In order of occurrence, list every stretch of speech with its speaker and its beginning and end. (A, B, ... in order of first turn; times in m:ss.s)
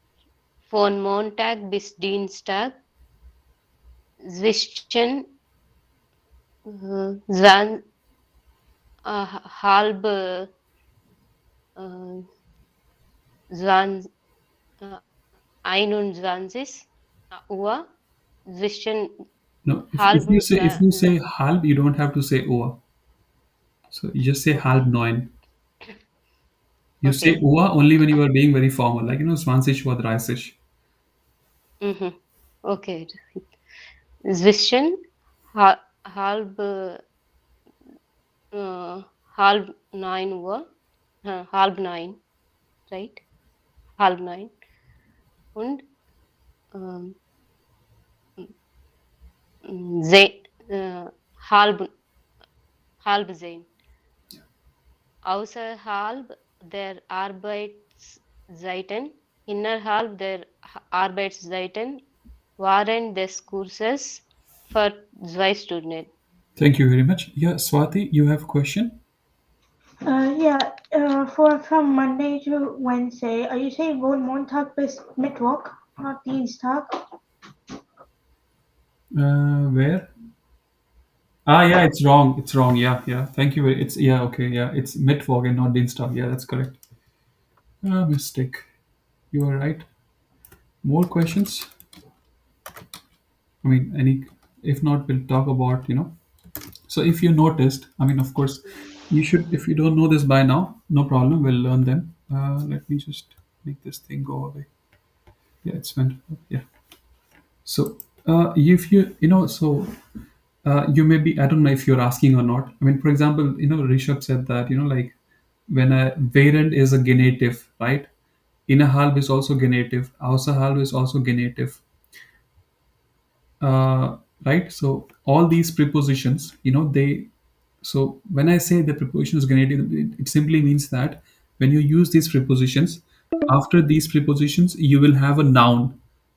0:00.7-0:02.8 A
0:04.3-0:05.2 A
0:06.7-0:07.8 A
0:09.0-0:10.5 A
0:11.8-0:12.2 A
0:13.5-0:14.0 A
0:15.6-0:17.8 A
0:18.5-0:19.1 A
0:19.6-0:22.8 B
0:19.9-0:21.0 A
0:23.9-0:25.3 B
0:27.0-0:30.6 B
0:27.0-0:27.4 A
0:31.8-0:32.1 A
0:32.6-0:33.4 A
0:34.3-0:35.0 A
0:35.5-0:37.0 A
0:38.5-0:40.6 A
0:41.2-0:42.2 A
0:42.9-0:43.2 A
0:44.0-0:44.5 A
0:45.5-0:45.8 A
0:46.7-0:47.1 A
0:49.7-0:51.9 A
0:53.0-0:53.6 A
0:55.2-1:02.0 A
1:02.6-1:06.1 A
1:06.6-1:09.0 B
1:10.0-1:16.9 C
1:19.1-1:20.1 B
1:21.4-1:26.8 B
1:27.8-1:28.6 B
1:29.3-1:29.9 B
1:30.8-1:31.7 B
1:33.6-1:36.2 B
1:36.9-1:44.7 B
1:45.6-1:46.7 B
1:47.6-1:49.9 B
1:50.6-1:55.2 B
1:55.7-1:58.1 B
1:58.7-2:01.8 B
2:03.6-2:07.3 B
2:07.8-2:16.0 B